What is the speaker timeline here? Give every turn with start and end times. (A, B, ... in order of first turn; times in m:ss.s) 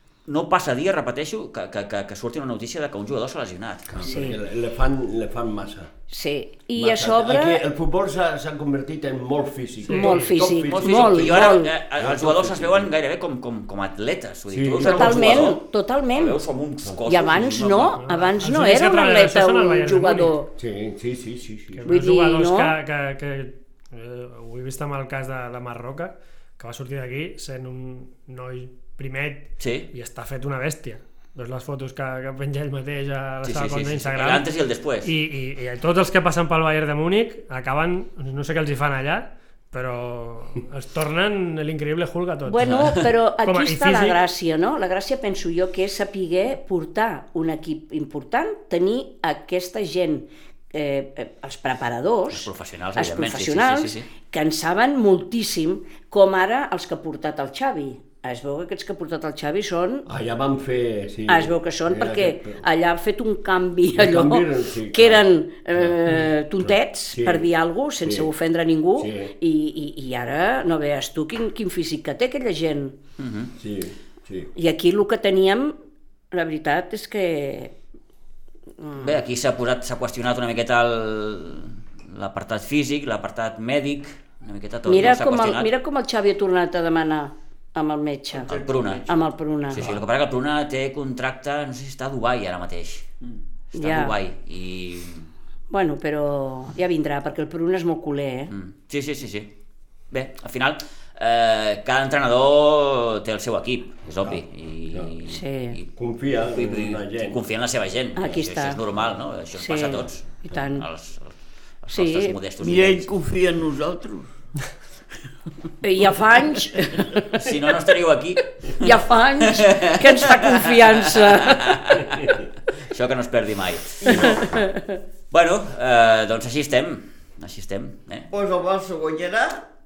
0:00.3-0:04.0 A
0:03.9-0:05.9 B
0:04.0-0:04.4 C
0:06.1-0:07.6 C
0:06.8-0:12.9 B
0:09.9-0:10.3 D
0:09.9-0:11.8 C
0:10.6-0:15.6 A
0:14.5-0:15.6 B
0:14.8-0:16.4 C
0:16.1-0:18.1 A
0:17.1-0:20.5 C
0:18.0-0:20.3 D
0:20.6-0:21.8 B
0:21.8-0:34.5 D
0:21.8-0:22.8 C
0:29.6-0:29.9 A
0:33.4-0:35.1 A
0:35.0-0:44.2 D
0:42.5-1:00.1 C
0:52.3-0:54.1 A
1:00.1-1:02.6 B
1:01.3-1:13.0 C
1:04.0-1:05.3 B
1:06.6-1:07.5 B
1:08.0-1:08.3 B
1:09.0-1:09.3 B
1:13.2-1:13.5 A
1:13.6-1:14.5 B
1:14.6-1:15.8 C
1:16.3-1:17.7 C
1:18.8-1:19.2 C
1:19.0-1:25.7 A
1:24.9-1:28.5 C
1:28.4-1:29.1 E
1:28.5-1:29.1 A
1:29.1-1:29.8 C
1:29.7-1:33.1 A
1:33.7-1:34.2 C
1:33.8-1:35.3 A
1:35.7-1:38.5 C
1:38.5-1:39.5 A
1:40.1-1:45.9 A
1:45.3-1:45.8 C
1:46.0-1:47.4 B
1:46.5-1:53.1 A
1:48.2-1:48.8 C
1:49.6-1:50.9 C
1:51.9-1:52.4 C
1:52.6-1:54.3 E
1:55.8-1:57.5 C
1:57.3-2:02.3 A
1:58.8-2:01.8 C
2:02.1-2:02.4 B
2:02.9-2:04.5 A
2:04.0-2:04.4 E
2:04.1-2:05.0 C
2:05.3-2:08.3 A
2:08.3-2:09.6 E